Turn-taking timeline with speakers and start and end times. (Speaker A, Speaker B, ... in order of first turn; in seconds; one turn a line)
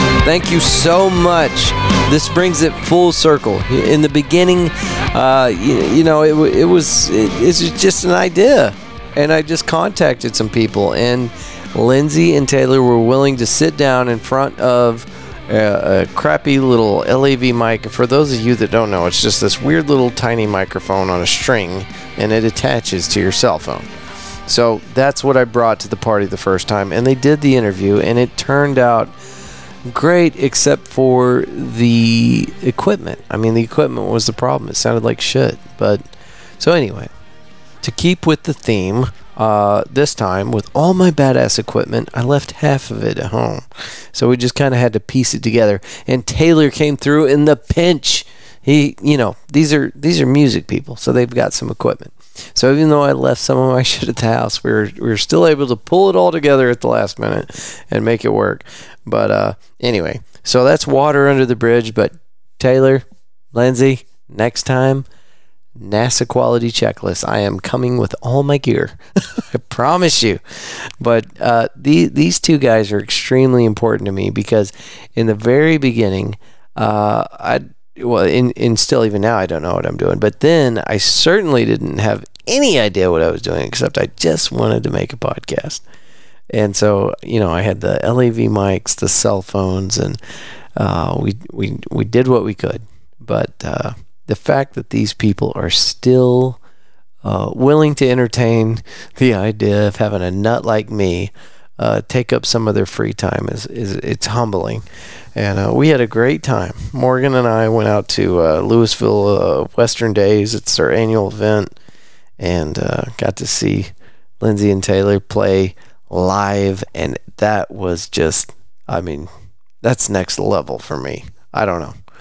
Speaker A: 0.2-23.9
Speaker A: 24.4-29.1
Speaker A: 29.9-36.0
Speaker A: 36.6-37.1
Speaker A: 37.8-65.1
Speaker A: 65.8-85.8
Speaker A: 86.5-90.2
Speaker A: 90.8-96.6
Speaker A: 97.2-111.8
Speaker A: 112.4-119.3
Speaker A: 119.8-121.9